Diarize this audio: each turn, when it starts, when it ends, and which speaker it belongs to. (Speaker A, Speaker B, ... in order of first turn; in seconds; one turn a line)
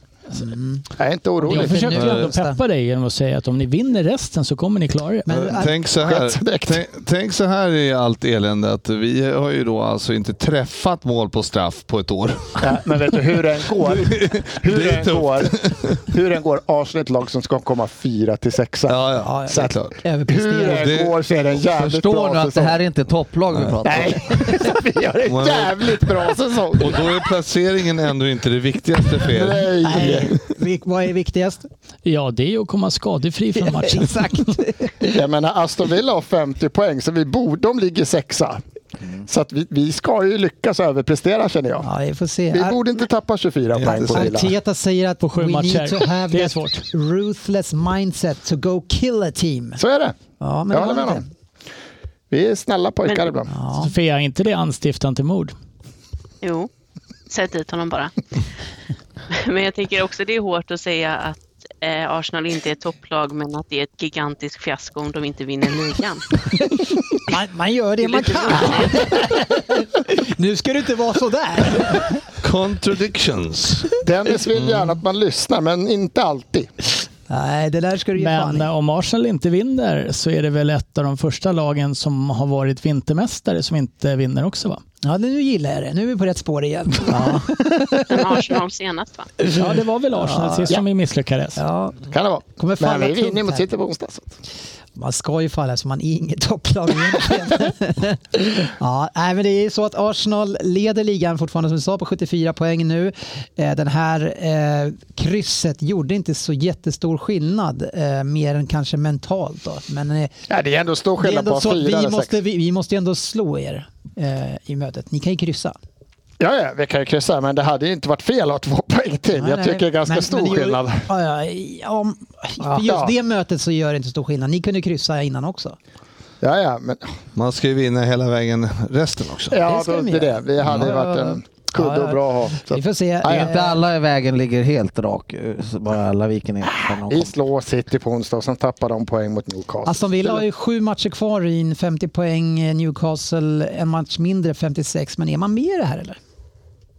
Speaker A: 0.3-0.9
Speaker B: 1.0-1.9
Speaker A: 1.4-2.6
Speaker C: 1.5-5.3
Speaker D: 1.9-2.2
Speaker A: 5.2-5.8
Speaker D: 5.3-12.8
Speaker B: 6.0-6.8
Speaker B: 12.6-22.8
Speaker D: 13.7-16.0
Speaker D: 18.9-20.0
Speaker A: 19.2-20.9
Speaker D: 20.6-21.2
Speaker E: 21.7-24.5
Speaker B: 23.8-27.1
Speaker D: 25.3-25.9
Speaker D: 26.8-29.7
Speaker B: 29.2-30.4
Speaker A: 29.8-31.7
Speaker C: 32.0-34.5
Speaker A: 33.6-35.1
Speaker B: 35.0-38.6
Speaker B: 39.2-41.9
Speaker A: 41.8-42.8
Speaker B: 42.5-44.5
Speaker D: 43.7-44.4
Speaker A: 43.8-49.8
Speaker C: 45.2-46.8
Speaker B: 49.8-50.2
Speaker A: 50.4-51.3
Speaker B: 50.7-51.2
Speaker B: 52.3-53.5
Speaker A: 53.5-53.9
Speaker C: 53.7-55.5
Speaker F: 56.4-56.7
Speaker F: 57.3-58.3
Speaker F: 59.3-66.4
Speaker A: 66.6-72.2
Speaker F: 68.0-69.2
Speaker D: 72.4-74.0
Speaker B: 74.0-76.7
Speaker A: 77.3-78.7
Speaker C: 78.2-84.8
Speaker A: 85.0-88.4
Speaker F: 88.1-89.3
Speaker A: 89.4-90.7
Speaker C: 89.5-91.6
Speaker A: 91.5-92.0
Speaker B: 92.0-94.3
Speaker A: 92.5-93.7
Speaker A: 95.0-110.3
Speaker B: 110.5-112.3
Speaker A: 111.2-115.8
Speaker B: 116.4-121.0
Speaker A: 119.3-125.8
Speaker B: 122.8-123.1
Speaker B: 126.4-127.1
Speaker D: 127.3-129.6
Speaker B: 129.5-133.5
Speaker A: 129.6-133.8
Speaker E: 133.2-137.3
Speaker B: 136.8-140.4
Speaker A: 139.8-146.2